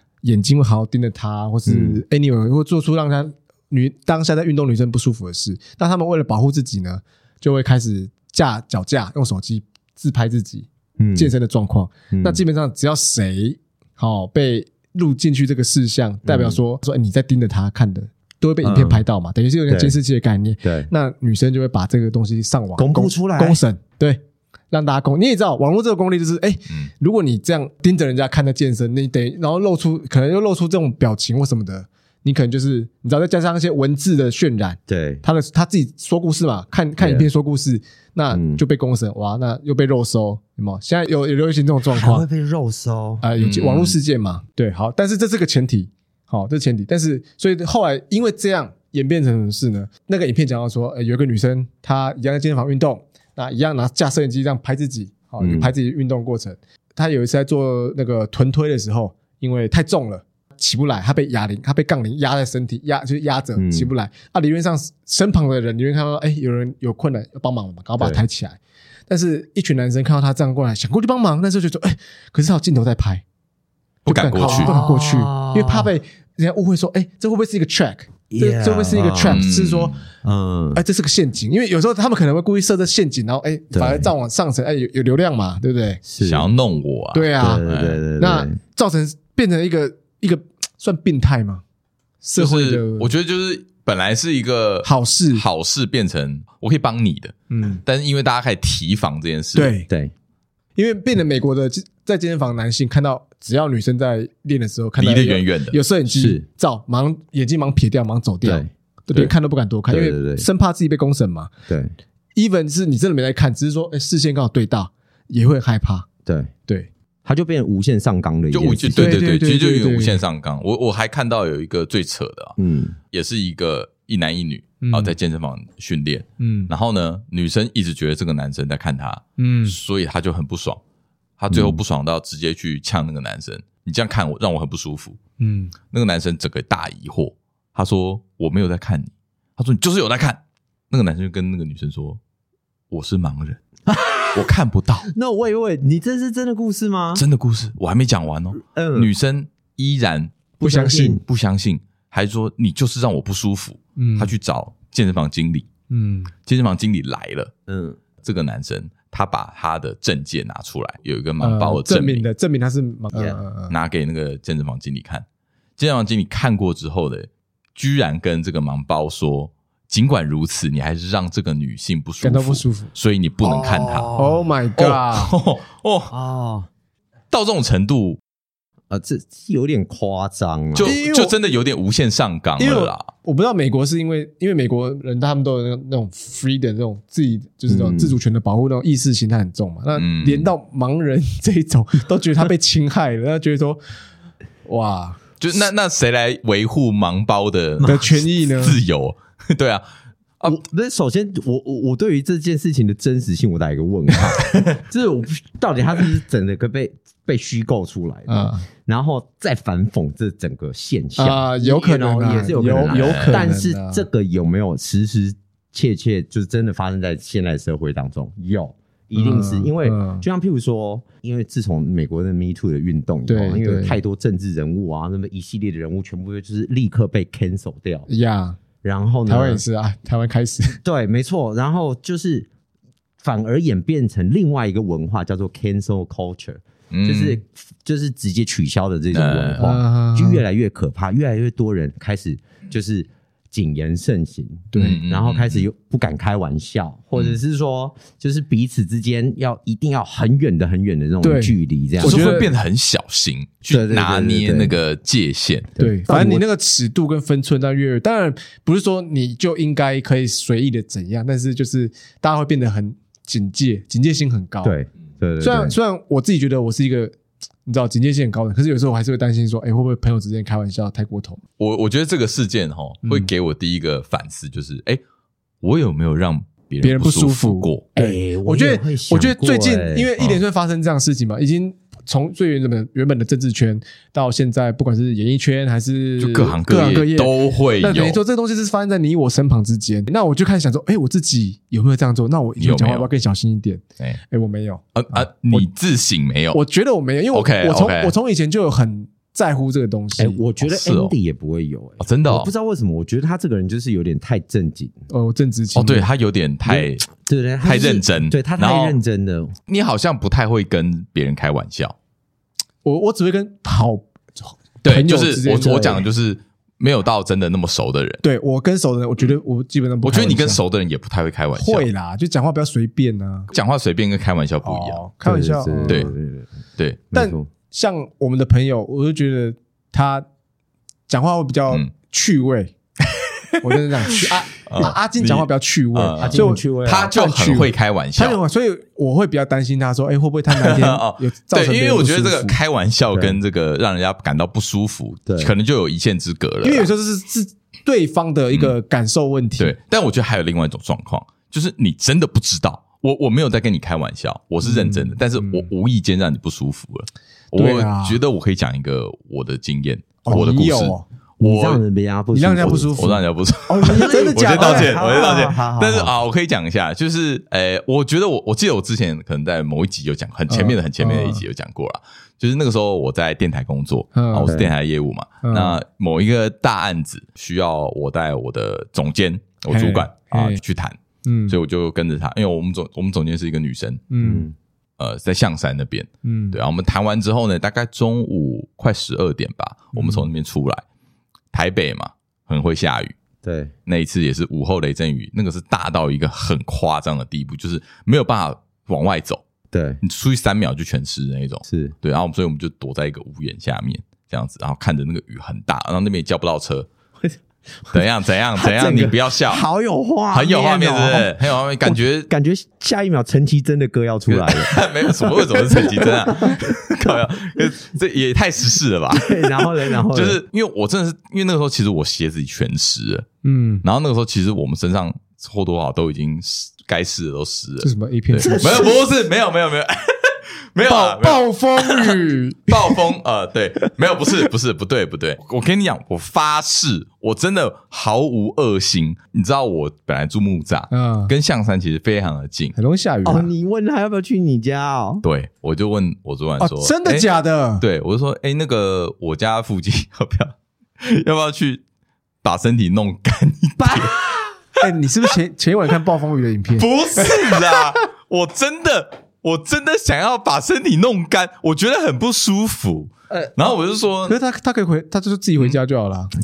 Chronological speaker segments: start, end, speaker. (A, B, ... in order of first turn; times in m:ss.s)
0:00.2-0:42.3 A
0:01.7-0:02.0 B
0:11.0-0:11.3 B
0:12.1-0:12.4 B
0:16.2-0:16.6 B
0:18.6-0:19.0 B
0:19.7-0:20.0 B
0:20.6-0:20.9 B
0:22.8-0:23.6 B
0:34.9-0:35.2 B
0:37.0-0:37.3 B
0:38.3-0:38.6 B
0:41.9-0:43.2 B
0:43.2-1:13.2 A
0:43.4-0:44.0 C
0:55.4-0:55.7 B
1:03.6-1:03.9 B
1:08.0-1:08.2 B
1:14.0-1:14.8 C
1:14.1-1:19.9 A
1:14.4-1:15.9 B
1:18.3-1:19.5 B
1:19.3-1:20.0 C
1:20.2-1:20.8 B
1:20.8-1:26.0 A
1:23.7-1:24.1 B
1:26.0-1:26.5 B
1:26.2-1:28.0 C
1:27.1-1:27.6 A
1:27.4-1:28.6 B
1:28.2-1:31.6 A
1:32.2-1:33.1 A
1:32.4-1:39.8 C
1:34.8-1:35.5 A
1:37.5-1:37.8 A
1:39.6-1:39.9 A
1:39.9-1:40.1 B
1:40.8-1:51.5 A
1:45.0-1:45.8 C
1:46.1-1:46.4 B
1:48.4-1:49.3 B
1:49.9-1:50.5 B
1:51.7-1:51.9 B
1:52.4-1:56.1 A
1:56.3-1:56.5 B
1:57.2-1:59.2 B
1:58.5-2:02.6 C
1:59.0-2:00.2 A
2:02.6-2:03.0 B
2:03.1-2:10.8 C
2:04.8-2:05.2 A
2:06.4-2:06.7 A
2:09.4-2:09.8 A
2:11.4-2:15.2 C
2:11.5-2:11.8 B
2:15.4-2:15.8 A
2:15.9-2:20.4 C
2:20.9-2:22.2 C
2:22.9-2:23.6 C
2:23.9-2:24.5 B
2:24.3-2:25.1 C
2:25.1-2:27.2 B
2:27.2-2:30.4 C
2:28.6-2:29.1 B
2:30.6-2:31.2 B
2:30.6-2:31.2 A
2:31.2-2:35.7 C
2:34.0-2:34.3 A
2:35.9-2:36.3 A
2:36.4-2:37.5 C
2:37.7-2:38.0 B
2:38.2-2:42.2 C
2:41.4-2:43.7 A
2:43.1-2:43.4 B
2:43.7-2:45.2 C
2:45.8-2:54.1 C
2:52.2-2:52.9 A
2:53.4-2:54.4 B
2:54.2-2:55.3 A
2:54.8-2:56.1 C
2:56.1-2:56.7 B
2:57.3-2:58.2 C
2:58.9-3:00.9 B
3:00.8-3:03.1 C
3:00.8-3:01.3 A
3:02.6-3:13.8 A
3:07.7-3:08.2 B
3:10.0-3:10.5 C
3:14.7-3:15.2 A
3:15.4-3:19.8 C
3:17.8-3:18.0 B
3:17.8-3:18.8 A
3:20.4-3:48.1 B
3:24.4-3:24.8 C
3:28.3-3:28.7 A
3:31.2-3:34.0 A
3:32.9-3:33.4 C
3:39.2-3:40.2 A
3:43.3-3:44.0 A
3:48.1-3:48.6 A
3:48.8-3:49.6 B
3:49.3-3:50.8 A
3:50.8-3:52.5 B
3:53.2-4:12.4 B
3:56.9-3:57.4 C
3:59.1-3:59.7 C
3:59.6-4:00.4 A
4:04.7-4:05.0 A
4:04.8-4:05.6 C
4:11.2-4:12.5 A
4:12.0-4:15.7 C
4:13.7-4:14.8 B
4:15.8-4:16.4 B
4:15.8-4:24.8 A
4:24.6-4:25.8 B
4:25.4-4:31.4 A
4:31.6-4:35.0 C
4:33.0-4:33.3 A
4:35.6-4:37.8 C
4:36.8-4:55.7 A
4:37.9-4:40.2 B
4:46.2-4:48.2 C
4:52.6-4:53.1 C
4:55.0-4:56.6 C
4:56.5-5:00.4 A
4:57.3-4:58.1 C
5:00.2-5:05.0 B
5:00.6-5:01.1 C
5:02.0-5:02.5 C
5:05.1-5:06.1 A
5:05.8-5:07.1 C
5:06.6-5:09.6 B
5:07.6-5:09.0 C
5:09.7-5:12.0 C
5:12.8-5:16.0 A
5:14.8-5:18.2 C
5:18.2-5:20.6 A
5:20.0-5:21.9 C
5:21.6-5:23.5 A
5:23.5-5:25.0 C
5:24.6-5:26.1 A
5:25.2-5:26.5 B
5:25.9-5:26.1 C
5:26.8-5:27.0 C
5:27.1-5:27.5 B
5:27.1-5:30.3 A
5:31.1-5:32.7 A
5:33.1-5:38.4 C
5:33.6-5:42.6 A
5:36.2-5:37.1 B
5:40.5-5:46.9 C
5:43.1-5:43.4 B
5:45.3-5:45.5 B
5:46.6-5:49.8 A
5:49.6-6:01.8 C
5:54.6-5:55.7 A
5:57.6-5:58.2 A
6:00.2-6:01.0 A
6:01.4-6:03.1 B
6:02.3-6:05.0 A
6:03.0-6:21.0 C
6:03.8-6:06.1 B
6:10.5-6:11.4 A
6:14.2-6:14.6 A
6:14.4-6:14.7 B
6:15.4-6:15.8 A
6:19.7-6:20.6 A
6:21.2-6:21.6 A
6:21.5-6:24.0 C
6:24.1-6:24.5 A
6:24.2-6:24.6 B
6:25.0-6:30.8 C
6:26.2-6:26.6 A
6:29.9-6:30.3 A
6:31.5-6:33.2 C
6:33.4-6:33.7 B
6:33.9-6:39.4 C
6:39.7-6:40.0 B
6:40.0-6:46.9 C
6:41.7-6:42.0 B
6:47.8-6:57.7 B
6:47.9-6:49.6 C
6:50.3-6:52.3 C
6:54.3-7:03.3 C
6:59.1-7:00.4 B
7:03.4-7:03.8 A
7:03.8-7:22.8 C
7:07.8-7:08.9 A
7:08.4-7:09.0 B
7:10.9-7:13.0 A
7:20.9-7:21.3 A
7:22.8-7:23.5 A
7:23.2-7:25.2 B
7:25.2-7:27.3 C
7:26.6-7:27.8 A
7:27.8-7:31.8 C
7:32.4-7:34.2 C
7:33.8-7:34.4 B
7:34.8-7:37.6 A
7:36.8-7:44.4 C
7:43.3-7:43.7 B
7:44.3-7:46.3 A